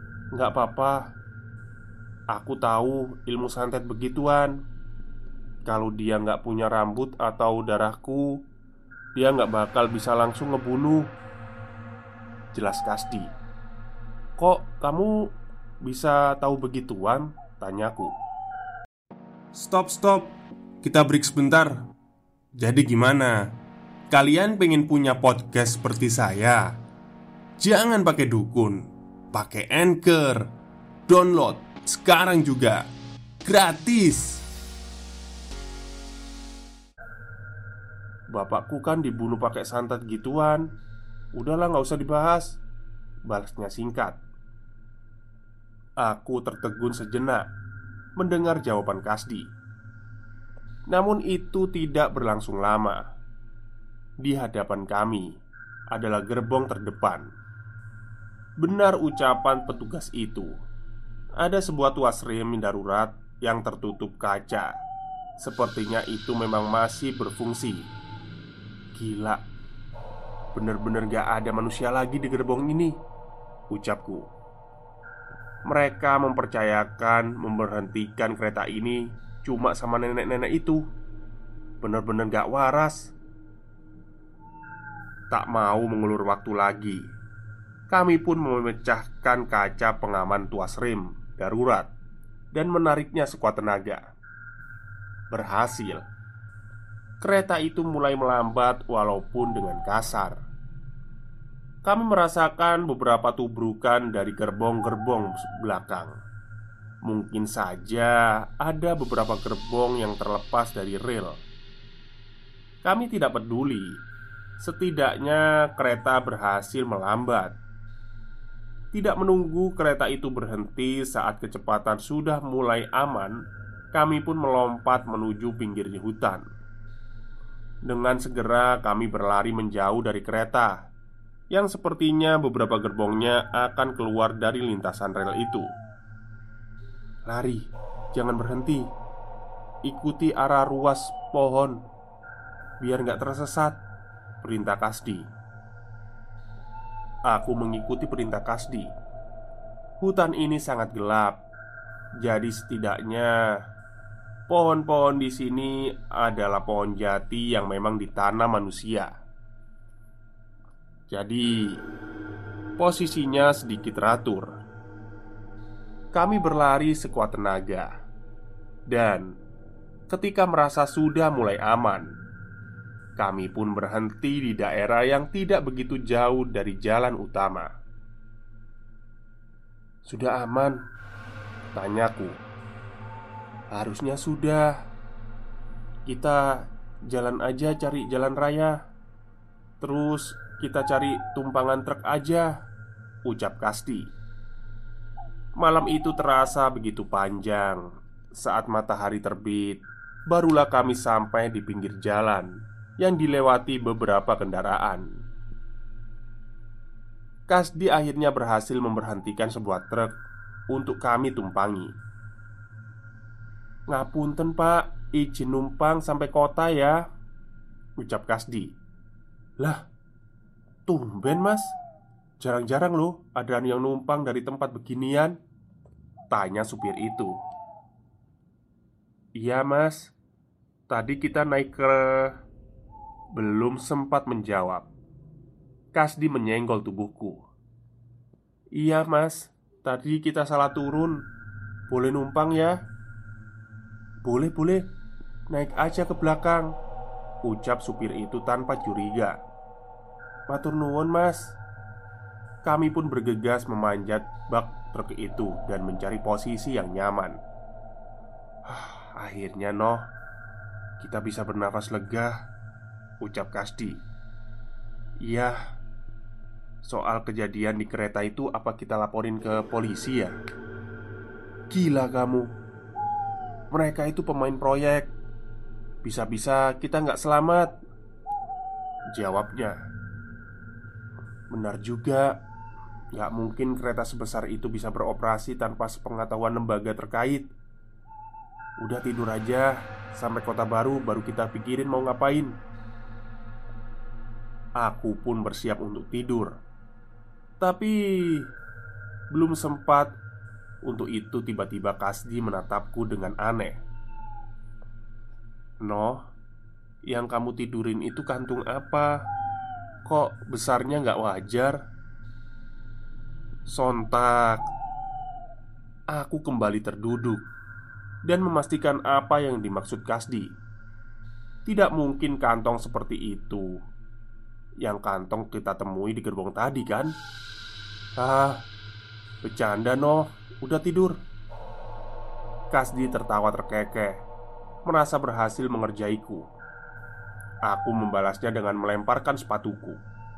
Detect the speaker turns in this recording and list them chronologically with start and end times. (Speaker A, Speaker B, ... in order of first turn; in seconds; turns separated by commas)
Speaker A: 0.3-1.0, Speaker A: 2.3-4.5, Speaker A: 5.7-8.3, Speaker A: 9.2-11.0, Speaker A: 12.5-13.3, Speaker A: 14.4-15.1, Speaker A: 15.8-18.1, Speaker A: 19.6-21.7, Speaker A: 22.6-23.4, Speaker A: 24.1-26.6, Speaker A: 27.6-28.8, Speaker A: 29.3-30.4, Speaker A: 31.1-32.8, Speaker A: 33.5-34.4, Speaker A: 38.3-40.6, Speaker A: 41.4-42.6, Speaker A: 43.3-44.2, Speaker A: 46.0-47.5, Speaker A: 48.2-49.5, Speaker A: 50.9-53.0, Speaker A: 54.2-55.3, Speaker A: 55.9-57.3, Speaker A: 58.6-60.5, Speaker A: 61.4-64.7, Speaker A: 65.4-67.9, Speaker A: 69.0-69.4, Speaker A: 70.5-72.9, Speaker A: 73.7-74.3, Speaker A: 75.7-80.8, Speaker A: 81.8-83.1, Speaker A: 85.3-87.0, Speaker A: 87.9-91.9, Speaker A: 92.5-94.0, Speaker A: 95.3-96.0, Speaker A: 97.2-100.3, Speaker A: 101.8-106.1, Speaker A: 107.1-111.4, Speaker A: 112.8-113.9, Speaker A: 114.6-117.6, Speaker A: 118.9-123.3, Speaker A: 123.9-126.4, Speaker A: 127.9-130.7, Speaker A: 131.5-135.7, Speaker A: 137.3-138.8, Speaker A: 139.9-141.8, Speaker A: 142.8-143.8, Speaker A: 144.4-145.3, Speaker A: 147.3-148.9, Speaker A: 150.0-151.3, Speaker A: 152.2-153.3, Speaker A: 154.5-159.1, Speaker A: 161.1-161.5, Speaker A: 162.8-164.5, Speaker A: 166.2-167.9, Speaker A: 168.9-169.3, Speaker A: 170.1-172.1, Speaker A: 173.2-177.7, Speaker A: 180.1-180.8, Speaker A: 181.7-182.3, Speaker A: 183.7-184.7, Speaker A: 186.1-186.4, Speaker A: 187.1-188.7, Speaker A: 189.8-192.5, Speaker A: 193.3-194.1, Speaker A: 195.6-197.8, Speaker A: 198.4-202.5, Speaker A: 203.0-205.1, Speaker A: 207.5-210.1, Speaker A: 210.7-211.9, Speaker A: 213.9-217.0, Speaker A: 218.0-218.7, Speaker A: 220.9-221.7, Speaker A: 222.4-225.4, Speaker A: 226.3-227.3, Speaker A: 229.4-230.1, Speaker A: 230.9-232.3, Speaker A: 233.4-234.9, Speaker A: 236.0-237.4, Speaker A: 238.8-241.2, Speaker A: 241.9-242.7, Speaker A: 244.2-244.8, Speaker A: 245.5-246.7, Speaker A: 247.5-249.4, Speaker A: 250.5-251.6, Speaker A: 252.6-257.4, Speaker A: 258.7-260.1, Speaker A: 261.0-262.3, Speaker A: 263.2-264.0, Speaker A: 265.2-265.6, Speaker A: 266.8-270.4, Speaker A: 271.7-272.5, Speaker A: 273.7-275.1, Speaker A: 276.0-277.7, Speaker A: 279.2-279.8, Speaker A: 281.5-282.3, Speaker A: 283.1-287.5, Speaker A: 288.8-292.5, Speaker A: 294.8-296.5, Speaker A: 297.6-298.4, Speaker A: 299.3-300.1, Speaker A: 300.9-303.8, Speaker A: 305.8-306.2, Speaker A: 307.1-309.1, Speaker A: 310.1-311.8, Speaker A: 313.7-314.6, Speaker A: 316.1-317.4, Speaker A: 318.3-320.5, Speaker A: 321.7-323.7, Speaker A: 324.8-327.1, Speaker A: 328.2-328.6, Speaker A: 329.4-331.2, Speaker A: 332.7-334.1, Speaker A: 334.9-336.4, Speaker A: 337.7-340.0